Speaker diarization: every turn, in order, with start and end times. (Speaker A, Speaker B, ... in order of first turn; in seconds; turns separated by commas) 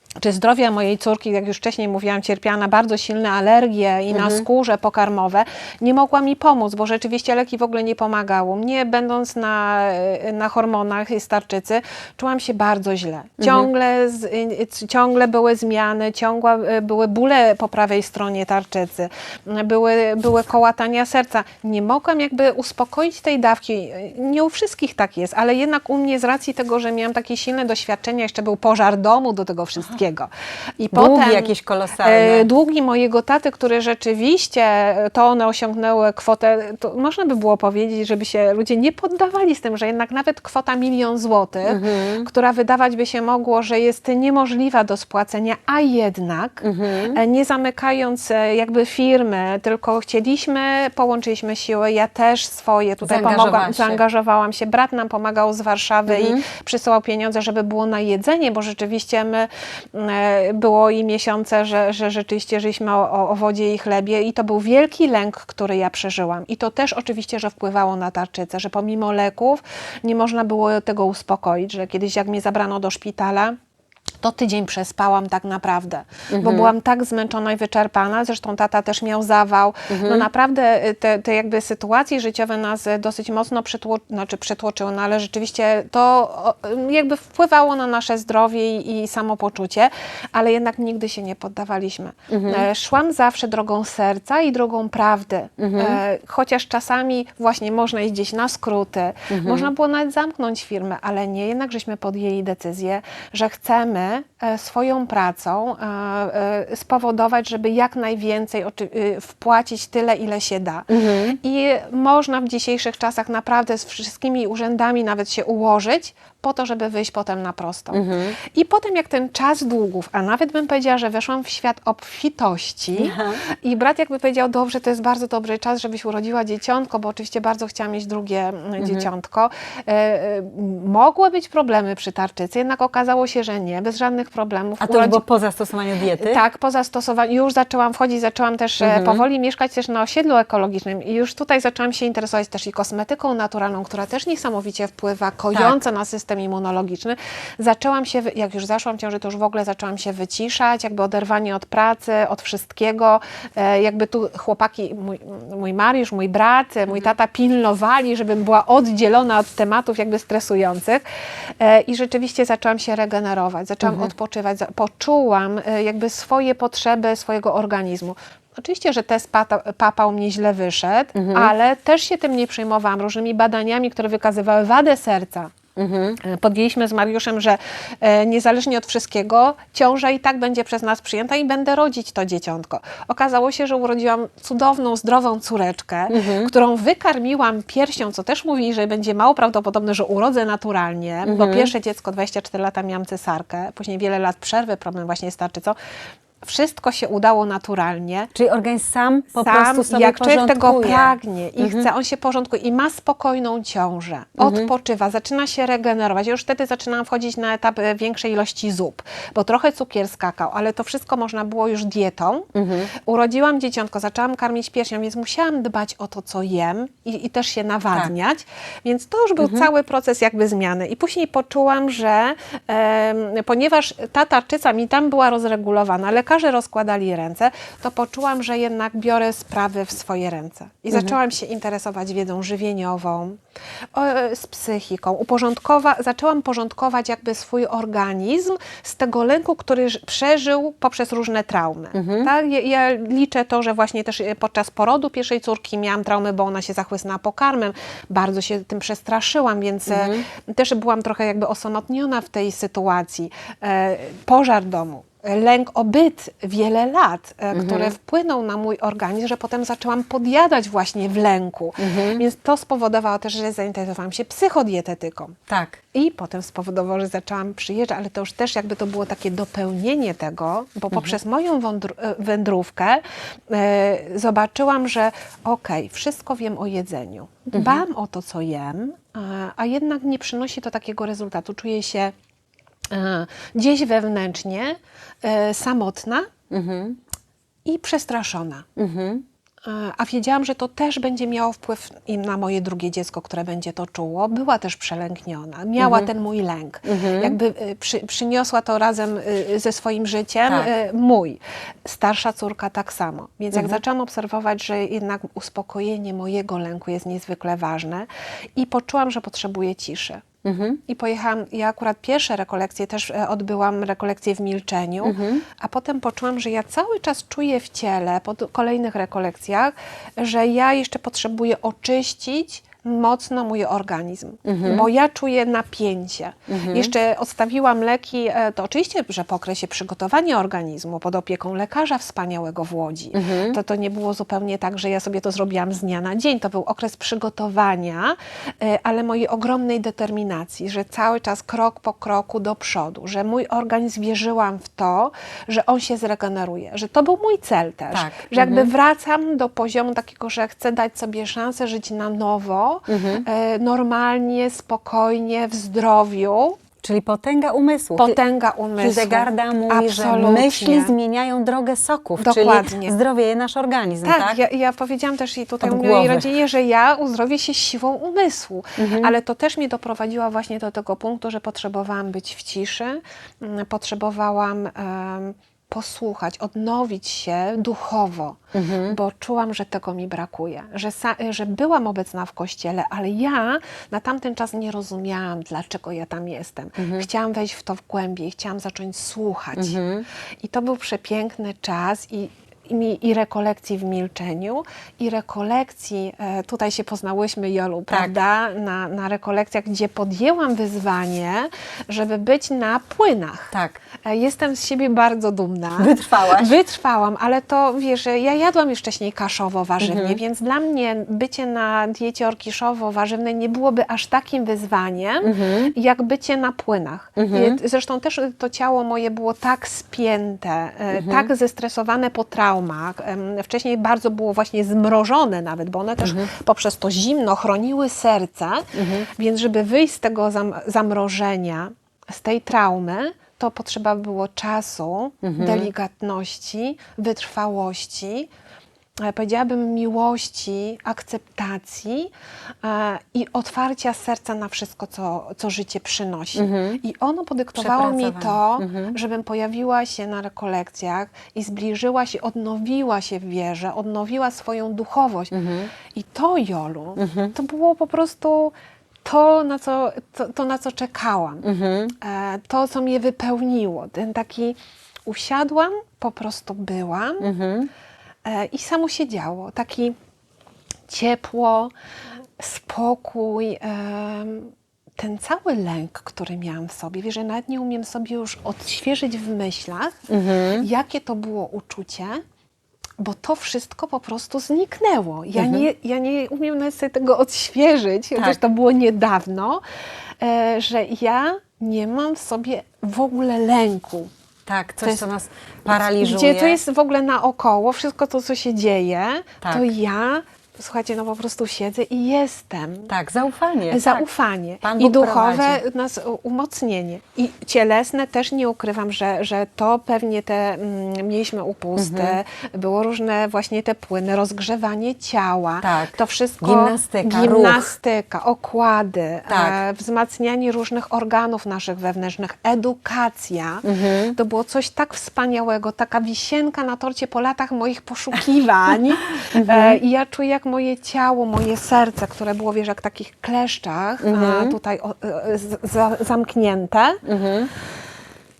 Speaker A: 0.2-73.5, Speaker B: 4.1-4.4, Speaker B: 13.4-13.7, Speaker B: 30.9-32.5, Speaker B: 41.6-42.3, Speaker B: 46.6-47.2, Speaker B: 53.0-54.0, Speaker B: 56.1-56.4, Speaker A: 74.2-135.2, Speaker B: 76.3-76.7, Speaker B: 79.9-80.3, Speaker B: 92.3-92.7, Speaker B: 95.6-96.0, Speaker B: 99.3-99.7, Speaker B: 110.9-111.4, Speaker B: 117.9-118.4, Speaker B: 123.0-123.4, Speaker B: 128.8-129.1, Speaker B: 134.8-136.4, Speaker A: 136.1-161.0, Speaker B: 138.8-139.2, Speaker B: 145.5-145.8, Speaker A: 161.6-175.5, Speaker B: 163.8-164.1, Speaker B: 171.1-171.5, Speaker B: 175.8-176.2, Speaker A: 176.2-195.8, Speaker B: 186.1-186.5, Speaker B: 191.2-191.7, Speaker A: 196.4-198.3, Speaker B: 198.3-201.9, Speaker A: 199.4-212.5, Speaker B: 204.4-204.7, Speaker B: 212.5-212.9, Speaker A: 213.1-233.4, Speaker B: 219.4-219.7, Speaker A: 233.9-265.4, Speaker B: 241.9-242.3, Speaker B: 249.9-250.2, Speaker B: 257.5-257.9, Speaker B: 261.8-262.2, Speaker B: 265.5-265.8, Speaker A: 265.9-282.1, Speaker B: 277.5-277.8, Speaker A: 282.9-286.3, Speaker B: 286.5-287.0, Speaker A: 287.6-288.6, Speaker B: 288.8-289.2, Speaker A: 289.6-310.2, Speaker B: 295.8-296.1, Speaker B: 296.8-297.4, Speaker B: 303.5-303.8, Speaker B: 310.4-310.8, Speaker A: 310.9-356.6, Speaker B: 315.0-315.4, Speaker B: 324.4-324.9, Speaker B: 326.5-326.9, Speaker B: 333.1-333.6, Speaker B: 347.9-348.7, Speaker B: 352.9-353.2, Speaker B: 356.8-358.1, Speaker A: 358.0-360.9, Speaker B: 358.8-364.4, Speaker A: 362.2-363.0, Speaker A: 364.0-389.8, Speaker B: 365.6-366.3, Speaker B: 368.8-369.1, Speaker B: 378.5-379.0, Speaker B: 386.8-387.1, Speaker B: 389.5-390.0, Speaker A: 390.4-403.5, Speaker B: 403.5-403.8, Speaker A: 404.0-438.3, Speaker B: 405.8-406.6, Speaker B: 409.8-410.2, Speaker B: 415.2-415.7, Speaker B: 417.1-417.6, Speaker B: 420.9-421.3, Speaker B: 426.0-426.3, Speaker B: 428.7-429.1, Speaker B: 435.2-435.7, Speaker A: 439.0-442.1, Speaker A: 442.6-455.3, Speaker B: 446.3-446.8, Speaker B: 447.6-448.9, Speaker B: 455.3-455.7, Speaker A: 455.9-458.5, Speaker B: 457.0-457.3, Speaker A: 459.0-461.4, Speaker B: 461.4-461.9, Speaker A: 462.0-467.2, Speaker B: 467.2-467.7, Speaker A: 468.2-469.9, Speaker A: 470.9-471.7, Speaker A: 472.4-479.9, Speaker B: 480.1-480.6, Speaker A: 480.6-482.2, Speaker A: 483.0-489.6, Speaker B: 485.4-485.6, Speaker A: 490.2-494.1, Speaker B: 494.4-496.6, Speaker A: 495.7-502.9, Speaker B: 499.4-499.7, Speaker B: 502.9-504.0, Speaker A: 503.7-537.0, Speaker B: 504.6-505.6, Speaker B: 511.8-512.2, Speaker B: 515.6-517.7, Speaker B: 519.3-519.6, Speaker B: 523.6-524.1, Speaker B: 529.3-529.8, Speaker B: 534.0-534.5, Speaker B: 537.0-537.5